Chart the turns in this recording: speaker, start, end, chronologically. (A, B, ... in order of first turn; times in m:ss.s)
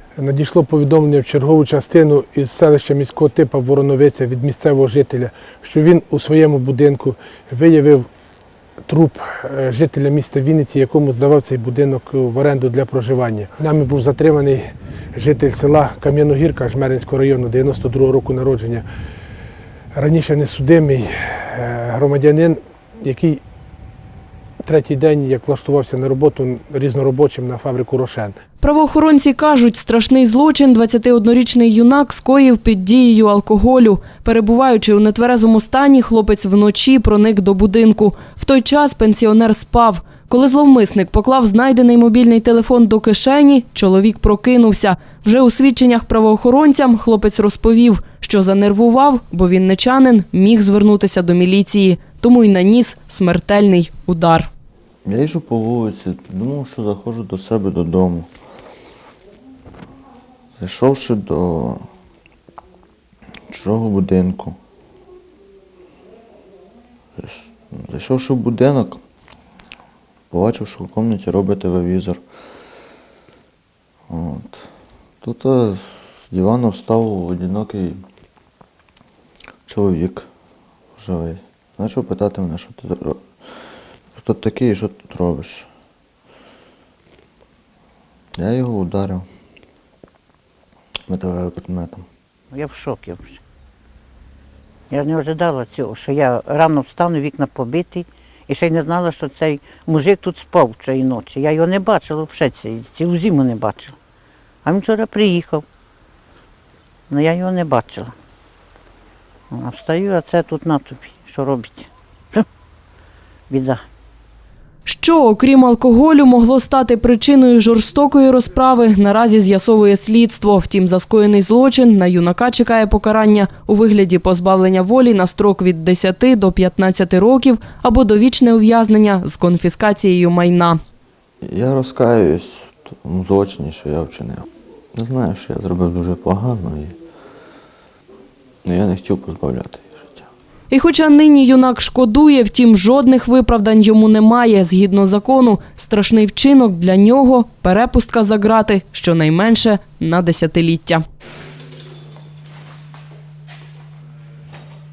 0:00.2-0:08.1 A
0:08.9-0:18.8 A
0:19.9-0:23.4 A
0:24.6-0:28.4 A
0:28.6-0:54.5 B
0:55.0-0:58.3 C
1:00.6-1:01.8 C
1:03.5-1:04.6 C
1:07.2-1:09.0 C
1:10.3-1:12.2 C
1:14.1-1:14.7 C
1:15.2-1:18.0 C
1:19.7-1:20.3 C
1:21.0-1:23.3 C
1:24.2-1:25.7 C
1:28.4-1:29.2 C
1:31.1-1:32.0 C
1:32.5-1:33.4 D
1:34.9-1:43.9 D
1:44.6-1:45.6 D
1:47.1-1:48.1 D
1:49.5-1:52.4 D
1:53.5-1:53.8 D
1:54.8-2:10.8 B
2:11.4-2:17.0 C
2:18.6-2:20.3 C
2:20.7-2:31.0 B